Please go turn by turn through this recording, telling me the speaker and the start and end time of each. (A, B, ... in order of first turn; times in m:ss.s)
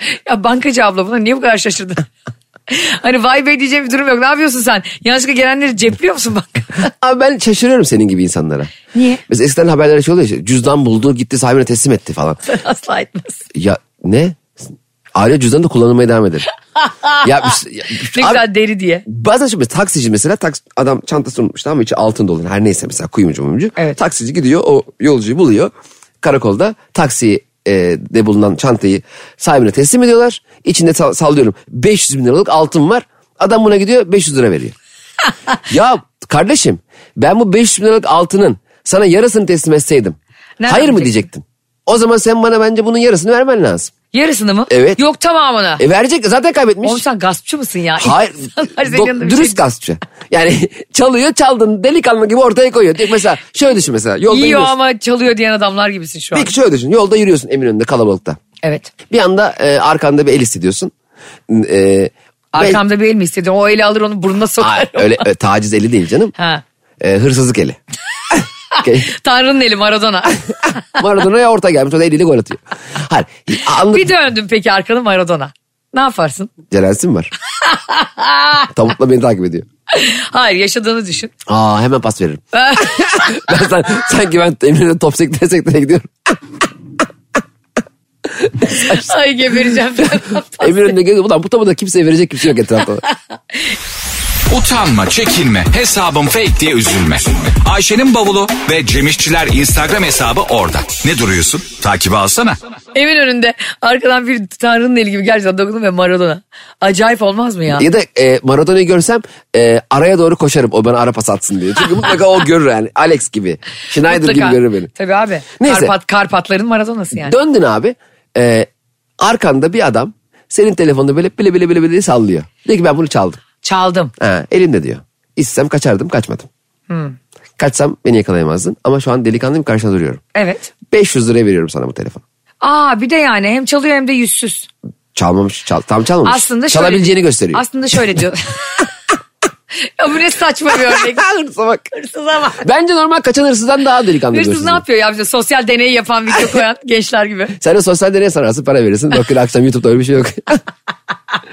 0:00.3-0:02.1 A
0:02.7-0:06.9 A
0:06.9-0:08.7 B
0:08.9-0:09.2 A
0:09.3-0:12.4 B
0:12.5-0:13.4 A
0:13.5-0:14.6 B
0:15.2-0:16.5 B
0:16.8-0:17.3 A
0:17.2-0:18.4 B
0:18.1-0:19.1 A
0:19.1-0:34.8 B
0:35.7-0:43.9 B
0:40.6-0:41.2 A
0:44.1-0:45.8 A
0:44.7-0:45.0 B
0:45.8-0:47.0 B
0:46.8-0:49.6 A
0:48.0-0:54.7 B
0:54.3-0:56.5 A
0:56.4-0:58.4 B
0:58.6-0:58.9 A
0:59.1-1:00.9 B
1:01.5-1:02.8 B
1:02.5-1:05.2 A
1:04.6-1:06.4 B
1:06.4-1:06.6 A
1:07.0-1:07.8 B
1:08.3-1:09.1 B
1:08.7-1:10.8 A
1:11.0-1:14.1 B
1:13.9-1:16.5 A
1:16.7-1:17.3 B
1:17.6-1:18.7 A
1:18.7-1:19.7 B
1:19.9-1:21.3 A
1:21.5-1:26.4 B
1:22.5-1:23.5 A
1:28.4-1:29.1 B
1:28.6-1:30.9 A
1:30.6-1:33.0 B
1:33.1-1:33.6 A
1:34.5-1:42.6 C
1:42.9-1:47.9 A
1:47.8-1:54.9 B
1:54.1-1:57.4 A
1:55.6-1:55.9 B
1:57.1-1:58.7 B
1:59.2-2:03.4 B
2:03.6-2:04.1 A
2:04.2-2:06.5 B
2:06.9-2:07.2 A
2:07.6-2:10.2 B
2:10.4-2:10.7 A
2:10.9-2:12.2 B
2:12.6-2:14.7 A
2:15.2-2:17.6 B
2:16.2-2:18.9 A
2:19.8-2:21.3 A
2:20.9-2:21.9 B
2:21.9-2:22.6 A
2:22.6-2:24.8 B
2:24.3-2:27.6 A
2:27.6-2:30.6 B